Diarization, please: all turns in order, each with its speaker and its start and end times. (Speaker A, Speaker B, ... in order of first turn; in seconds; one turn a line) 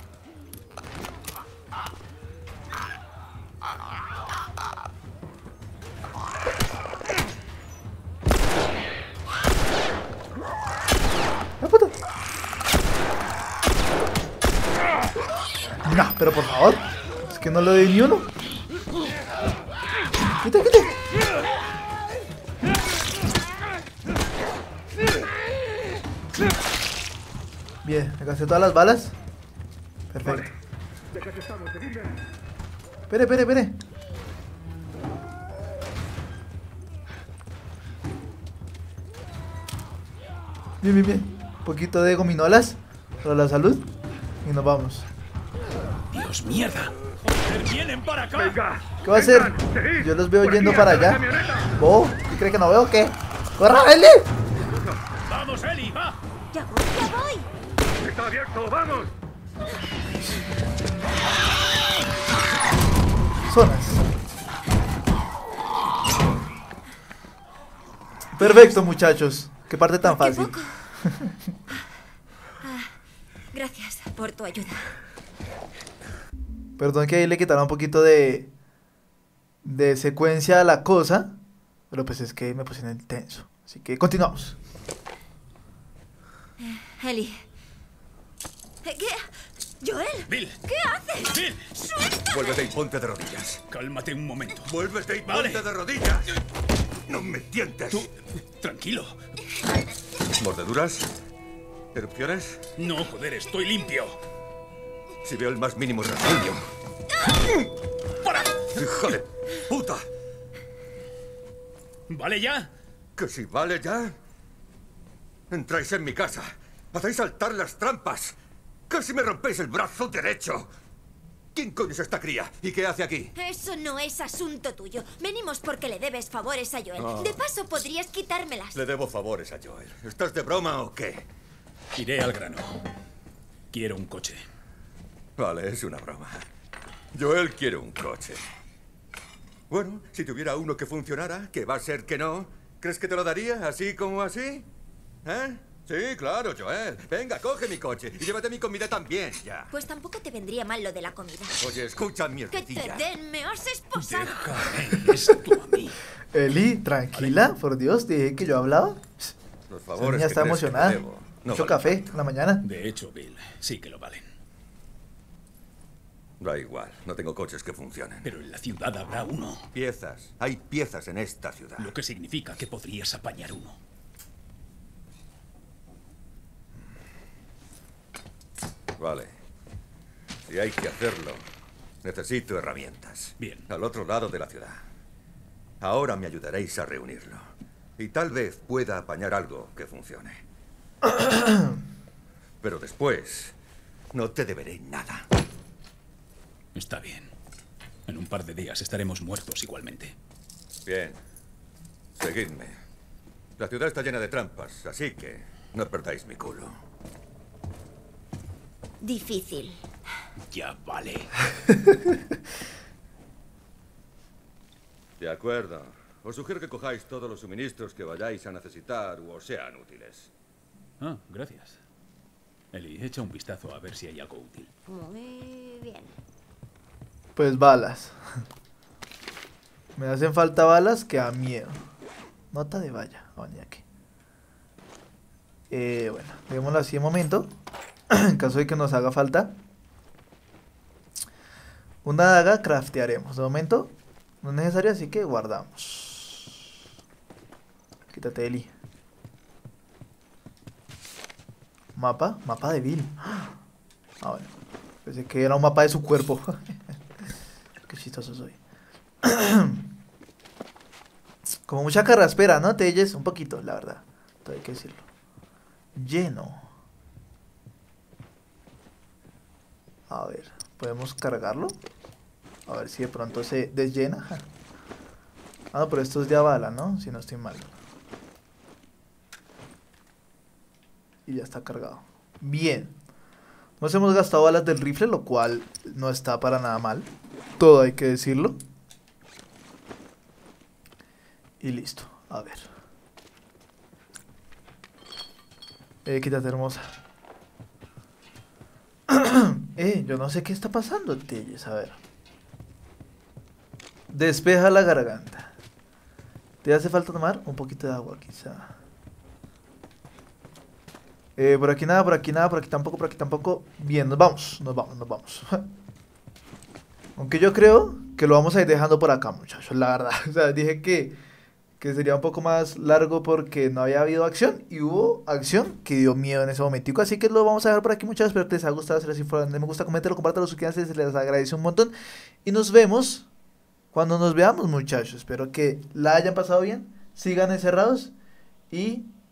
Speaker A: 11.6-11.9
Speaker A: 15.8-18.3
Speaker A: 20.4-20.9
Speaker A: 27.8-29.1
Speaker A: 30.1-30.5
Speaker B: 31.2-32.1
Speaker A: 33.1-33.8
Speaker A: 40.8-43.9
Speaker A: 44.4-45.1
Speaker C: 46.1-48.6
Speaker B: 48.4-51.7
Speaker A: 49.0-54.3
Speaker C: 55.2-56.2
Speaker D: 56.5-57.5
Speaker B: 58.0-59.1
Speaker A: 63.5-64.0
Speaker A: 68.4-71.3
Speaker D: 70.0-70.8
Speaker D: 72.6-73.0
Speaker D: 73.5-74.9
Speaker A: 76.8-78.5
Speaker A: 79.6-81.3
Speaker A: 81.9-84.6
Speaker D: 86.6-87.5
Speaker D: 88.8-91.4
Speaker C: 90.3-90.6
Speaker C: 91.3-92.0
Speaker D: 92.1-92.5
Speaker B: 92.3-93.6
Speaker C: 93.7-95.7
Speaker B: 94.6-96.3
Speaker B: 97.1-98.1
Speaker C: 97.9-99.2
Speaker B: 100.4-101.1
Speaker B: 101.9-102.6
Speaker C: 102.8-104.2
Speaker B: 105.2-106.7
Speaker C: 108.1-109.2
Speaker B: 108.7-110.1
Speaker C: 112.1-112.7
Speaker B: 113.2-114.2
Speaker B: 115.5-118.4
Speaker B: 118.9-120.7
Speaker B: 121.5-123.3
Speaker D: 123.3-128.8
Speaker B: 127.0-127.4
Speaker B: 128.7-131.3
Speaker C: 131.9-132.8
Speaker C: 133.7-134.4
Speaker B: 135.4-136.5
Speaker B: 137.1-138.4
Speaker B: 139.7-144.7
Speaker B: 145.2-149.7
Speaker D: 149.7-151.8
Speaker B: 151.6-153.1
Speaker D: 152.5-154.6
Speaker C: 153.9-156.0
Speaker A: 155.0-155.4
Speaker A: 156.3-159.3
Speaker C: 157.1-157.5
Speaker B: 159.7-162.2
Speaker A: 159.9-162.6
Speaker C: 162.6-164.3
Speaker B: 166.4-168.3
Speaker C: 168.2-169.7
Speaker B: 169.7-171.9
Speaker C: 171.8-173.8
Speaker B: 179.0-179.3
Speaker B: 180.4-181.4
Speaker B: 182.0-184.8
Speaker C: 183.4-183.7
Speaker B: 185.8-187.5
Speaker B: 188.0-190.4
Speaker A: 191.2-191.7
Speaker B: 192.6-193.6
Speaker B: 194.1-195.3
Speaker C: 196.7-197.3
Speaker C: 198.1-200.2
Speaker B: 200.9-201.2
Speaker B: 202.2-202.7
Speaker B: 203.6-206.7
Speaker D: 209.0-209.9
Speaker C: 210.5-211.4
Speaker B: 215.2-220.3
Speaker C: 221.0-221.8
Speaker C: 222.7-224.7
Speaker D: 224.9-226.1
Speaker A: 227.4-228.2
Speaker A: 230.0-231.8
Speaker A: 232.5-233.8
Speaker A: 235.7-237.5
Speaker A: 238.1-239.5
Speaker A: 242.0-246.6
Speaker A: 248.1-248.7
Speaker A: 251.9-253.6
Speaker A: 254.2-254.5
Speaker A: 255.1-256.9
Speaker A: 257.9-258.6
Speaker A: 259.2-259.9
Speaker A: 261.7-265.0
Speaker A: 265.9-266.7
Speaker A: 270.1-271.8
Speaker A: 272.7-274.5
Speaker A: 275.7-277.7
Speaker A: 281.3-282.9
Speaker A: 283.8-288.6
Speaker A: 291.6-292.7
Speaker A: 296.1-296.9
Speaker A: 299.1-302.0
Speaker A: 304.1-305.5
Speaker A: 306.6-308.7
Speaker A: 311.4-315.6
Speaker A: 317.2-321.2
Speaker A: 321.8-331.9
Speaker A: 332.4-333.3
Speaker A: 333.9-338.1
Speaker A: 338.7-339.1